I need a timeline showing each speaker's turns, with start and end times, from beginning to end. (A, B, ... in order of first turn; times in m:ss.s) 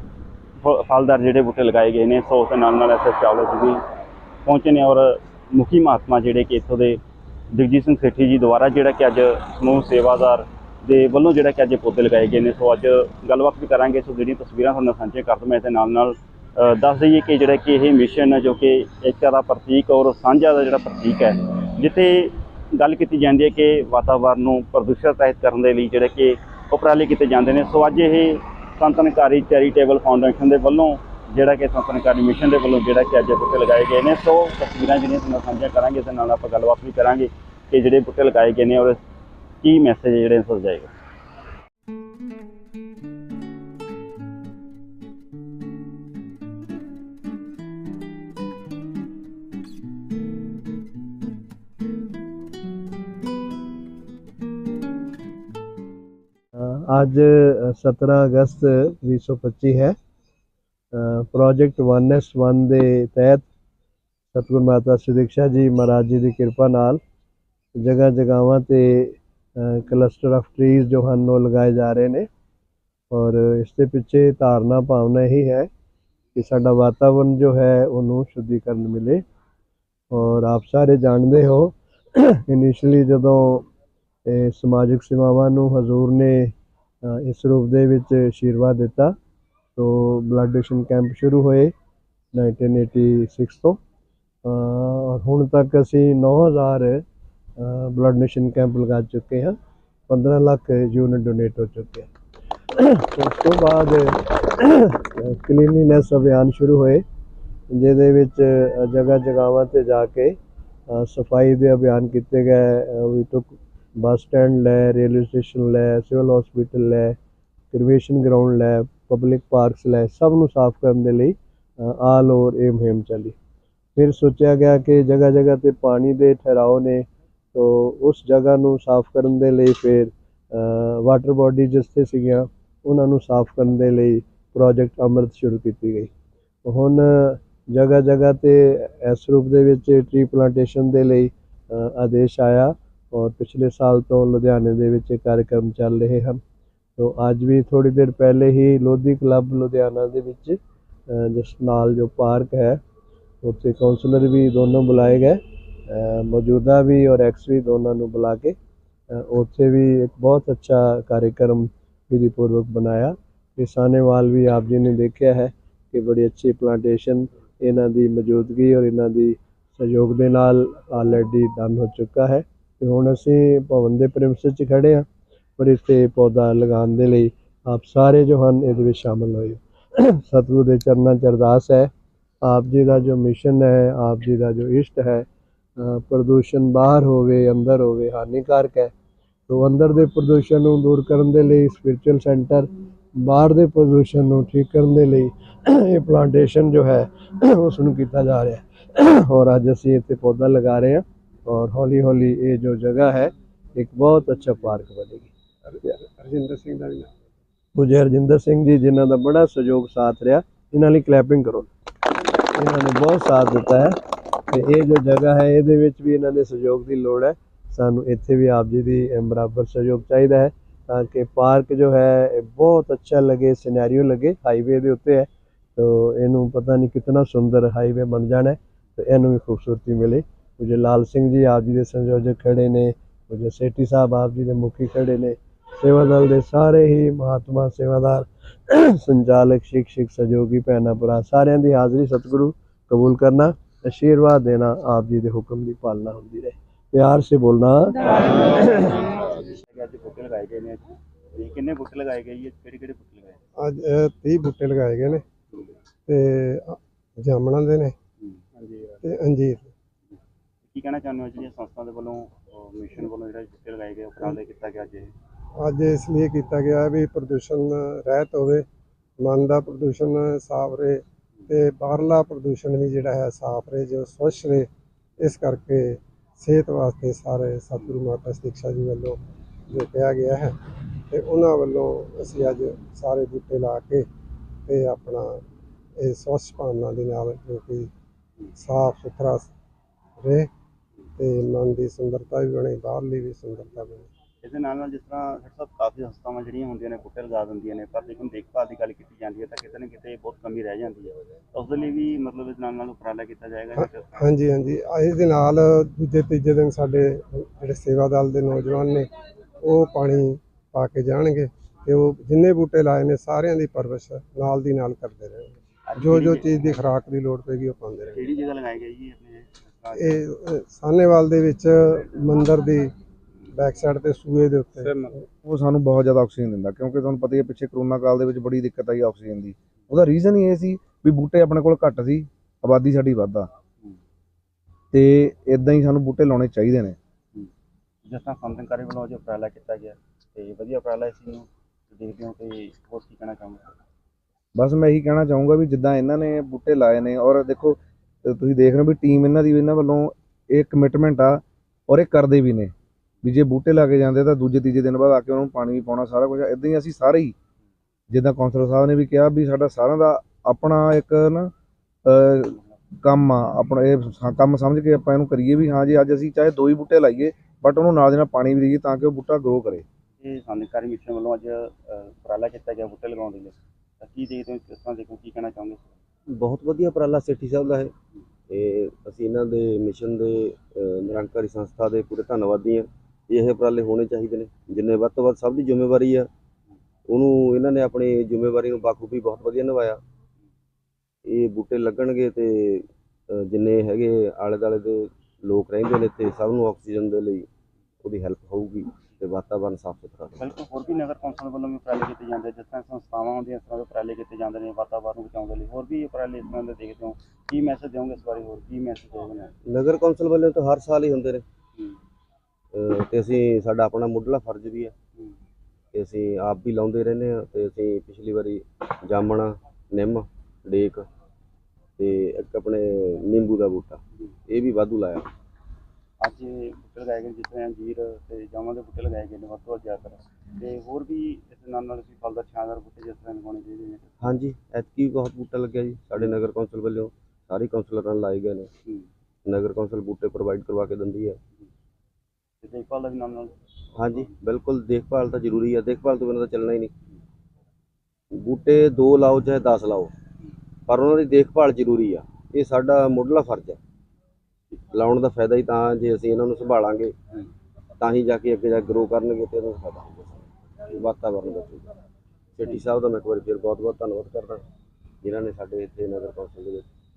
0:00.6-0:03.8 A
0:04.4-0:07.0 A
0:07.5-0:39.0 A
0:39.6-0:40.9 A
0:56.6-1:00.0 B
1:00.9-1:03.5 B
1:04.3-1:07.0 B
1:07.8-1:12.3 B
1:13.1-1:15.7 B
1:16.4-1:19.2 B
1:20.1-1:23.7 B
1:24.3-1:29.2 B
1:29.8-1:31.7 B
1:32.3-1:33.8 B
1:34.4-1:37.0 B
1:37.6-1:39.6 B
1:40.1-1:42.1 B
1:42.8-1:47.0 B
1:47.7-1:50.4 B
1:50.9-1:57.2 B
1:57.7-2:03.4 B
2:04.0-2:16.1 B
2:16.6-2:26.4 B
2:27.0-2:32.8 B
2:33.4-2:38.6 B
2:39.1-2:55.1 B
2:55.6-3:01.9 B
3:02.4-3:05.3 B
3:05.8-3:08.9 B
3:09.5-3:25.3 B
3:25.7-3:27.1 C
3:27.8-3:31.7 B
3:32.6-3:34.0 B
3:34.5-4:09.0 B
4:09.4-4:13.4 A
4:13.6-4:15.2 C
4:16.1-4:18.0 C
4:19.0-4:19.7 C
4:20.7-4:25.1 A
4:25.6-4:28.7 C
4:29.2-4:40.6 C
4:41.1-4:44.1 C
4:44.7-4:45.4 C
4:46.0-4:47.9 C
4:48.6-4:49.5 C
4:50.2-4:50.5 C
4:51.2-4:54.1 C
4:54.4-5:04.1 A
5:03.8-5:09.1 C
5:09.6-5:18.2 C
5:15.9-5:16.7 A
5:18.1-5:20.2 A
5:20.0-5:22.9 C
5:23.5-5:25.2 C
5:24.8-5:25.2 A
5:25.4-5:33.5 D
5:34.9-5:37.0 D
5:38.0-5:43.6 A
5:44.6-5:52.7 D
5:53.2-5:57.3 D
5:58.1-6:01.5 D
6:02.1-6:09.8 D
6:10.2-6:15.8 A
6:16.4-6:17.9 E
6:18.5-6:26.3 E
6:27.1-6:30.0 E
6:31.3-6:37.5 E
6:38.0-6:40.4 E
6:40.4-6:49.5 A
6:49.7-6:51.4 E
6:52.7-6:54.9 E
6:55.9-7:01.1 E
7:02.0-7:05.3 E
7:06.2-7:14.1 A
7:14.2-7:18.7 E
7:19.5-7:21.4 E
7:22.6-7:23.5 A
7:24.0-7:26.9 E
7:28.4-7:30.1 E
7:30.9-7:33.8 E
7:34.9-7:37.1 E
7:38.0-7:41.9 E
7:42.6-7:44.6 E
7:45.2-7:46.8 E